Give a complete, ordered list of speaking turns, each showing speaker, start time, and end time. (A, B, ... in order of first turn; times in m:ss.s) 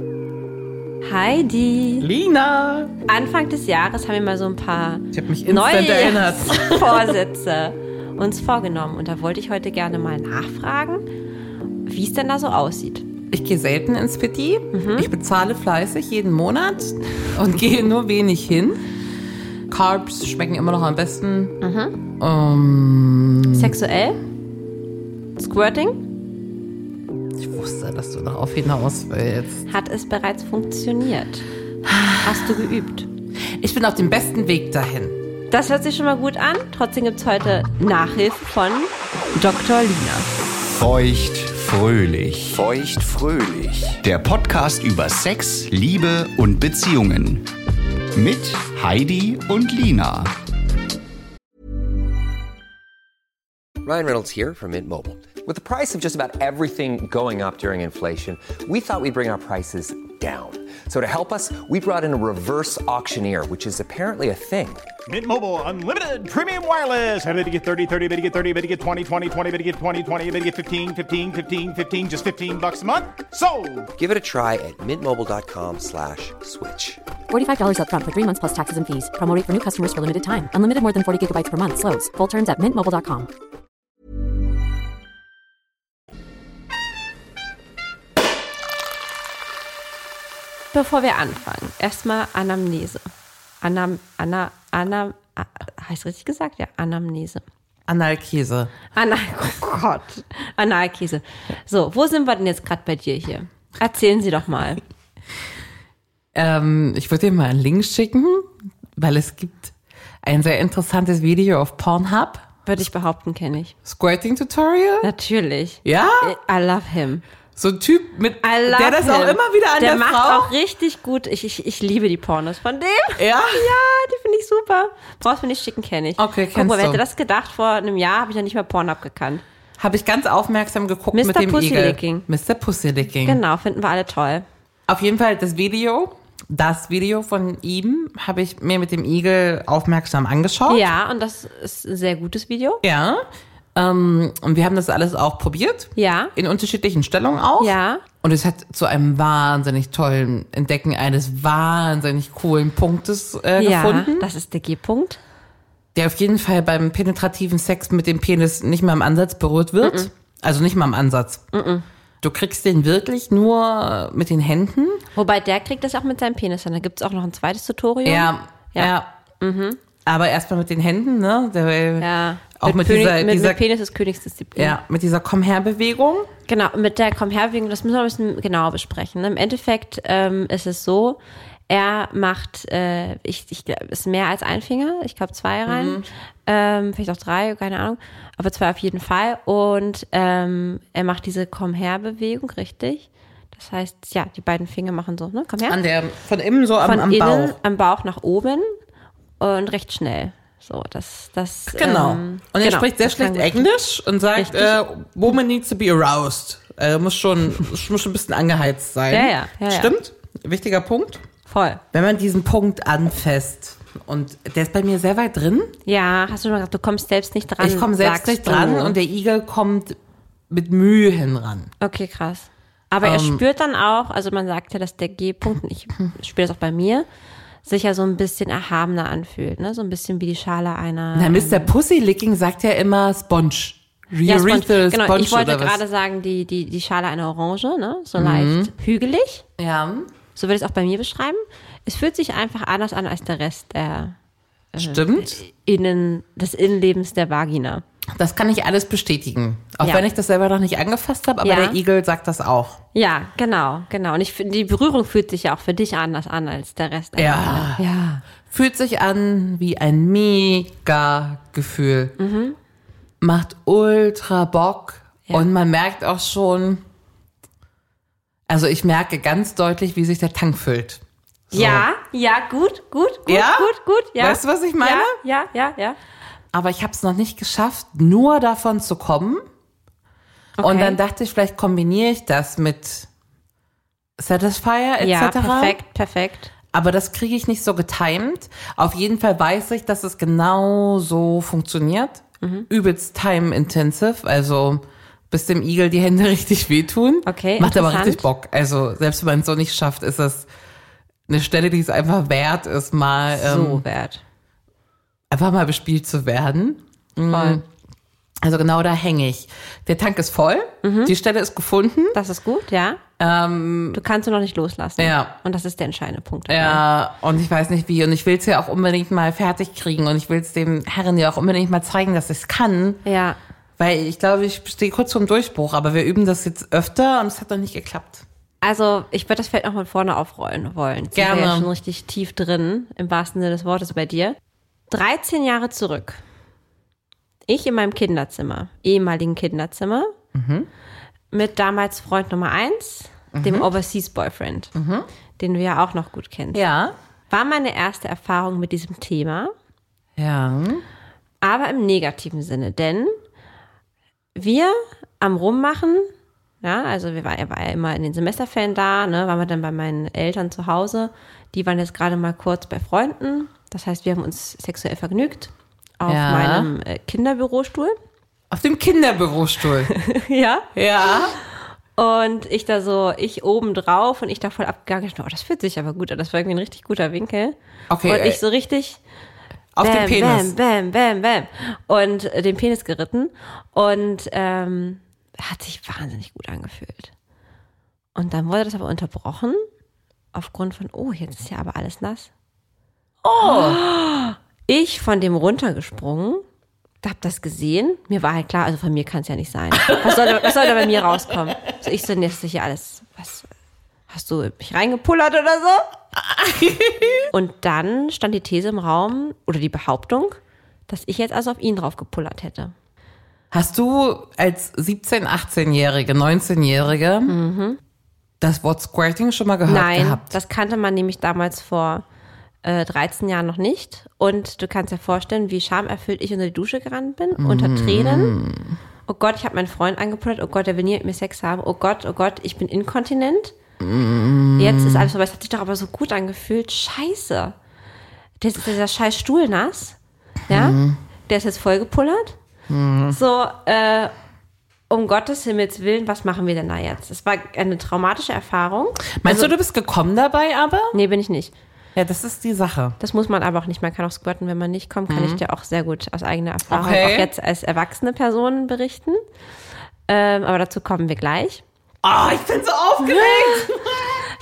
0:01.0-0:02.1 A
0:02.0-0:02.9 B
0:03.1-0:11.1 A
0:05.1-0:07.2 B
0:11.8-0:13.0 A
0:13.3-0:18.8 B
0:14.7-0:15.1 A
0:19.7-0:21.6 B
0:21.6-0:22.0 A
0:22.2-0:23.7 B
0:23.5-0:24.2 A
0:25.4-0:26.0 A
0:27.4-0:29.6 B
0:29.7-0:31.4 A
0:31.8-0:32.6 B
0:32.2-0:33.1 A
0:33.6-0:35.2 B
0:35.5-0:40.3 A
0:40.7-0:47.4 C
0:48.1-0:50.3 C
0:53.8-1:04.8 D
1:05.1-1:13.9 E
1:13.9-1:17.0 D
1:17.3-1:23.3 F
1:30.7-1:33.1 A
1:33.6-1:37.4 A
1:37.9-1:38.7 B
1:38.9-1:44.8 A
1:46.3-1:52.5 B
1:52.6-1:53.7 A
1:53.8-1:55.1 B
1:55.0-1:57.2 A
1:55.8-1:56.4 B
1:57.6-2:00.5 B
1:58.4-2:09.4 A
2:03.2-2:03.7 B
2:06.2-2:07.0 B
2:09.8-2:13.4 B
2:11.1-2:12.2 A
2:13.2-2:14.4 A
2:14.9-2:20.9 B
2:20.7-2:22.8 A
2:22.8-2:34.3 B
2:26.0-2:26.3 A
2:27.6-2:28.0 A
2:33.6-2:35.2 A
2:35.9-2:41.5 B
2:39.8-2:40.1 A
2:41.5-2:41.8 A
2:42.2-2:45.0 B
2:45.1-2:49.8 A
2:48.0-2:49.1 B
2:50.0-2:53.6 B
2:52.0-2:54.8 A
2:54.6-2:56.3 B
2:56.5-3:15.8 A
3:05.6-3:06.1 B
3:15.7-3:17.6 B
3:16.8-3:18.7 A
3:19.4-3:23.7 A
3:21.7-3:31.2 B
3:24.3-3:24.8 A
3:29.1-3:30.0 A
3:31.4-3:31.8 A
3:31.9-3:35.7 B
3:35.8-3:39.0 A
3:37.6-3:40.0 B
3:40.5-3:41.7 B
3:41.8-3:47.1 A
3:43.0-3:43.4 B
3:47.6-3:51.7 A
3:51.1-3:55.8 B
3:54.2-3:59.4 A
3:58.2-3:58.7 B
3:59.6-4:00.1 B
4:00.3-4:04.2 A
4:04.7-4:07.8 A
4:04.8-4:05.4 B
4:08.1-4:12.8 B
4:09.8-4:10.1 A
4:11.4-4:11.8 A
4:12.9-4:18.2 A
4:17.2-4:17.8 B
4:18.5-4:22.2 B
4:22.2-4:22.6 A
4:23.2-4:26.8 B
4:28.5-4:31.9 B
4:31.5-4:36.0 A
4:33.3-4:35.2 B
4:36.5-4:39.4 B
4:40.6-4:41.0 A
4:40.6-4:43.1 B
4:44.2-4:45.8 B
4:45.0-4:46.5 A
4:46.7-5:00.5 B
4:52.4-4:52.7 A
4:57.2-4:58.2 A
5:01.3-5:03.8 B
5:03.3-5:04.2 A
5:05.3-5:07.6 B
5:07.3-5:07.6 A
5:08.4-5:12.2 B
5:10.8-5:11.1 A
5:12.1-5:13.0 A
5:13.2-5:14.0 B
5:13.9-5:16.8 A
5:15.0-5:15.3 B
5:16.5-5:23.0 B
5:23.0-5:23.4 A
5:23.8-5:28.2 B
5:28.6-5:34.4 A
5:31.1-5:31.7 B
5:34.9-5:36.2 A
5:37.5-5:40.1 A
5:40.3-5:40.7 B
5:41.3-5:44.7 A
5:43.3-5:43.7 B
5:44.7-5:45.1 B
5:45.4-5:46.6 A
5:46.5-5:47.0 B
5:47.3-5:49.5 A
5:50.2-5:50.8 B
5:51.4-5:53.2 A
5:54.3-5:56.1 A
5:56.6-6:07.9 A
6:06.0-6:06.7 B
6:08.5-6:09.9 B
6:09.9-6:11.2 A
6:10.7-6:11.4 B
6:12.0-6:19.0 A
6:17.9-6:18.4 B
6:19.7-6:20.5 B
6:19.8-6:27.1 A
6:28.1-6:29.6 A
6:30.3-6:32.3 A
6:33.2-6:33.8 B
6:33.4-6:36.4 A
6:37.0-6:43.5 A
6:39.8-6:41.5 B
6:44.1-6:45.9 A
6:46.3-6:47.3 B
6:47.3-6:50.4 A
6:50.9-6:52.7 A
6:53.5-6:57.3 B
6:57.2-6:57.8 A
6:58.4-7:00.4 B
6:59.6-7:02.0 A
7:02.6-7:08.4 A
7:07.4-7:08.8 B
7:09.1-7:13.5 A
7:13.8-7:15.1 B
7:14.6-7:17.5 A
7:18.4-7:20.0 A
7:20.5-7:21.0 B
7:20.5-7:22.4 A
7:22.7-7:23.2 B
7:23.1-7:24.1 A
7:24.9-7:29.5 A
7:29.2-7:31.0 B
7:30.9-7:31.5 A
7:32.0-7:33.0 B
7:33.0-7:39.2 A
7:35.1-7:35.4 B
7:36.7-7:37.3 B
7:40.1-7:41.6 A
7:42.0-7:44.2 B
7:43.0-7:43.7 A